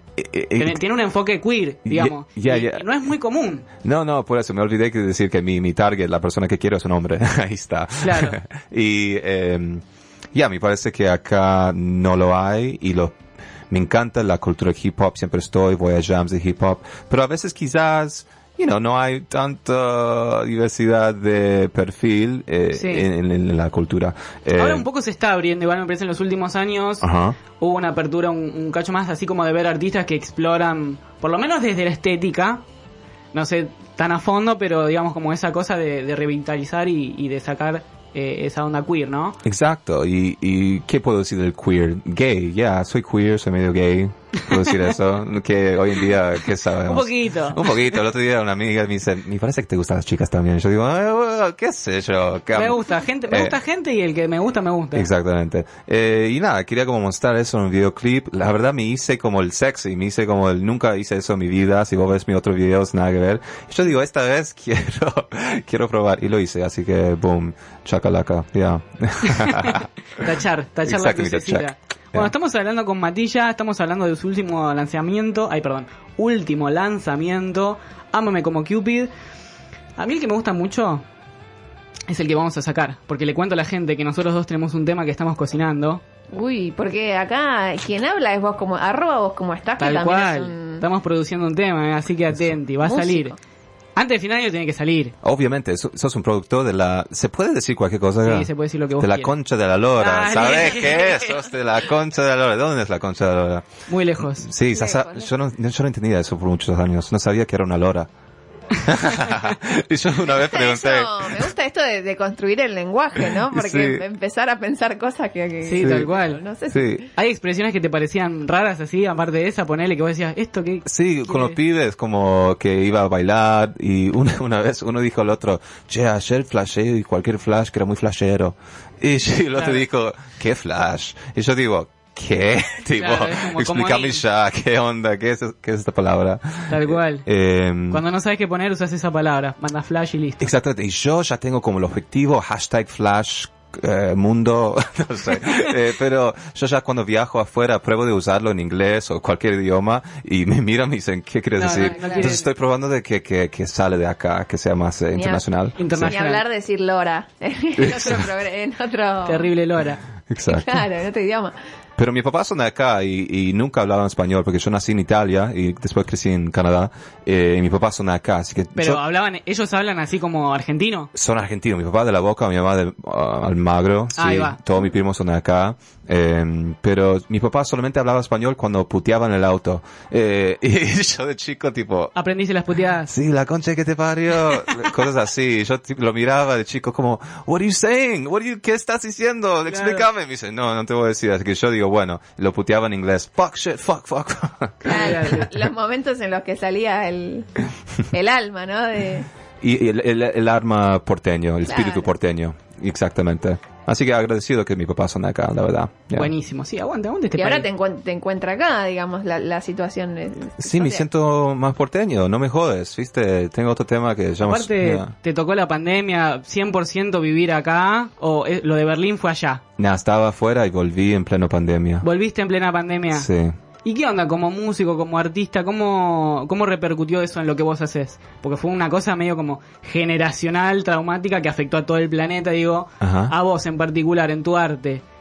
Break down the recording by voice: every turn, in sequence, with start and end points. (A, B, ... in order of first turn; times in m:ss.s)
0:00.2-0:00.8 A
0:00.6-0:03.6 B
0:01.8-0:02.8 A
0:03.8-0:13.2 A
0:08.0-0:08.4 B
0:13.7-0:24.8 A
0:22.7-0:23.1 B
0:24.6-0:27.0 B
0:27.0-0:27.4 A
0:27.6-0:32.6 B
0:33.3-0:39.4 B
0:39.4-0:53.6 A
0:44.5-0:44.8 B
0:46.8-0:47.9 B
0:52.5-0:55.1 B
0:54.9-1:10.2 A
1:09.3-1:19.1 B
1:10.8-1:12.3 A
1:20.0-1:21.0 B
1:22.1-1:26.0 B
1:26.3-1:30.8 C
1:29.8-1:33.3 B
1:32.8-1:33.4 C
1:34.0-1:35.1 B
1:35.2-1:43.6 A
1:38.2-1:39.3 B
1:40.0-1:41.4 B
1:43.9-1:44.5 B
1:44.2-1:48.1 A
1:44.7-1:45.3 C
1:48.8-1:51.5 A
1:50.4-1:57.1 C
1:53.2-1:54.0 A
1:55.6-1:56.4 B
1:55.8-1:56.1 A
1:56.7-1:57.1 A
1:57.1-2:01.6 B
2:00.8-2:18.0 A
2:09.6-2:09.8 B
2:12.9-2:14.2 B
2:16.7-2:17.2 B
2:17.9-2:20.5 B
2:20.4-2:36.1 A
2:31.6-2:32.4 B
2:31.8-2:32.3 C
2:35.1-2:35.4 C
2:35.8-2:36.4 B
2:36.0-2:39.5 C
2:37.8-2:38.3 A
2:39.3-2:40.0 B
2:40.3-2:40.8 A
2:40.5-2:41.5 C
2:42.0-2:49.0 A
2:48.8-2:51.1 B
2:51.1-3:02.1 A
2:54.2-2:54.6 B
3:02.1-3:03.1 B
3:03.1-3:15.4 A
3:09.7-3:10.1 B
3:14.8-3:17.5 C
3:14.9-3:15.4 B
3:18.0-3:19.2 C
3:19.6-3:26.3 A
3:21.6-3:22.1 C
3:26.1-3:27.6 B
3:27.4-3:31.0 C
3:30.6-3:35.1 A
3:34.4-3:39.6 B
3:39.8-3:42.0 A
3:42.0-3:43.3 B
3:43.1-3:43.5 A
3:43.8-3:55.0 B
3:53.0-3:53.3 A